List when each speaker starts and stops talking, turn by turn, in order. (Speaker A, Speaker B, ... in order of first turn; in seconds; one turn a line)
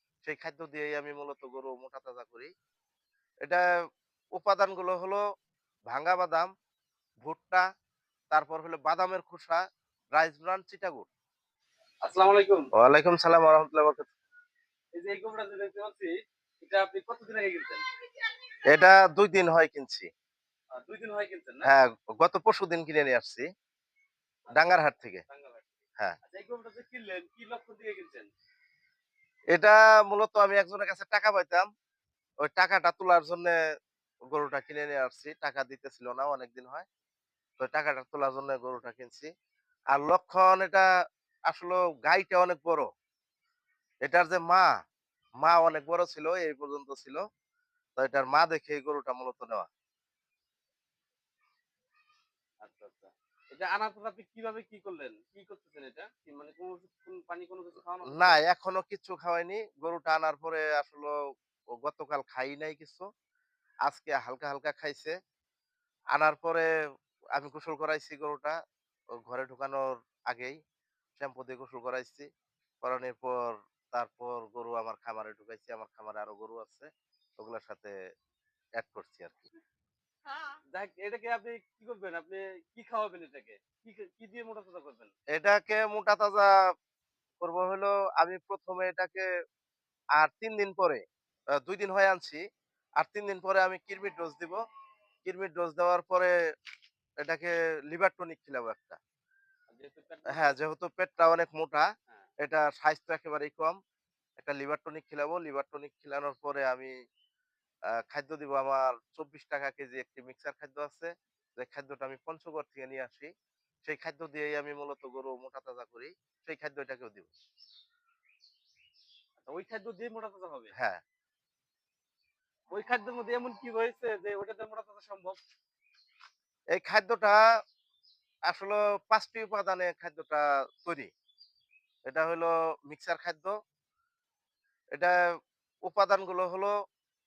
Speaker A: 0.2-2.5
Speaker A: 4.4-5.2
Speaker A: 5.9-6.5
Speaker A: 7.2-7.6
Speaker A: 8.3-9.6
Speaker A: 10.2-11.1
Speaker B: 12.0-12.7
Speaker A: 12.8-14.1
Speaker B: 14.9-17.8
Speaker A: 18.7-20.1
Speaker B: 20.8-21.7
Speaker A: 21.6-23.5
Speaker A: 24.5-25.2
Speaker B: 25.3-25.7
Speaker B: 26.3-28.3
Speaker A: 29.6-31.7
Speaker A: 32.5-33.6
Speaker A: 34.3-36.9
Speaker A: 37.6-39.3
Speaker A: 39.9-40.9
Speaker A: 41.5-42.9
Speaker A: 44.0-44.7
Speaker A: 45.4-47.2
Speaker A: 48.0-49.7
Speaker B: 52.6-58.4
Speaker A: 58.1-61.1
Speaker A: 61.8-63.0
Speaker A: 63.9-65.2
Speaker A: 66.1-66.7
Speaker A: 67.4-68.5
Speaker A: 69.3-70.6
Speaker A: 71.2-72.3
Speaker A: 72.8-76.9
Speaker A: 77.4-77.9
Speaker A: 78.8-79.5
Speaker B: 80.7-85.1
Speaker A: 85.3-86.5
Speaker A: 87.4-89.2
Speaker A: 90.2-91.0
Speaker A: 91.6-92.4
Speaker A: 93.0-94.6
Speaker A: 95.2-96.3
Speaker A: 97.2-99.0
Speaker B: 99.7-100.6
Speaker A: 100.3-101.9
Speaker A: 102.4-103.8
Speaker A: 104.4-106.9
Speaker A: 108.1-113.3
Speaker A: 113.9-117.3
Speaker B: 119.4-120.7
Speaker A: 120.7-121.0
Speaker B: 122.7-125.4
Speaker A: 126.8-127.4
Speaker A: 128.5-131.1
Speaker A: 132.1-133.5
Speaker A: 135.9-136.7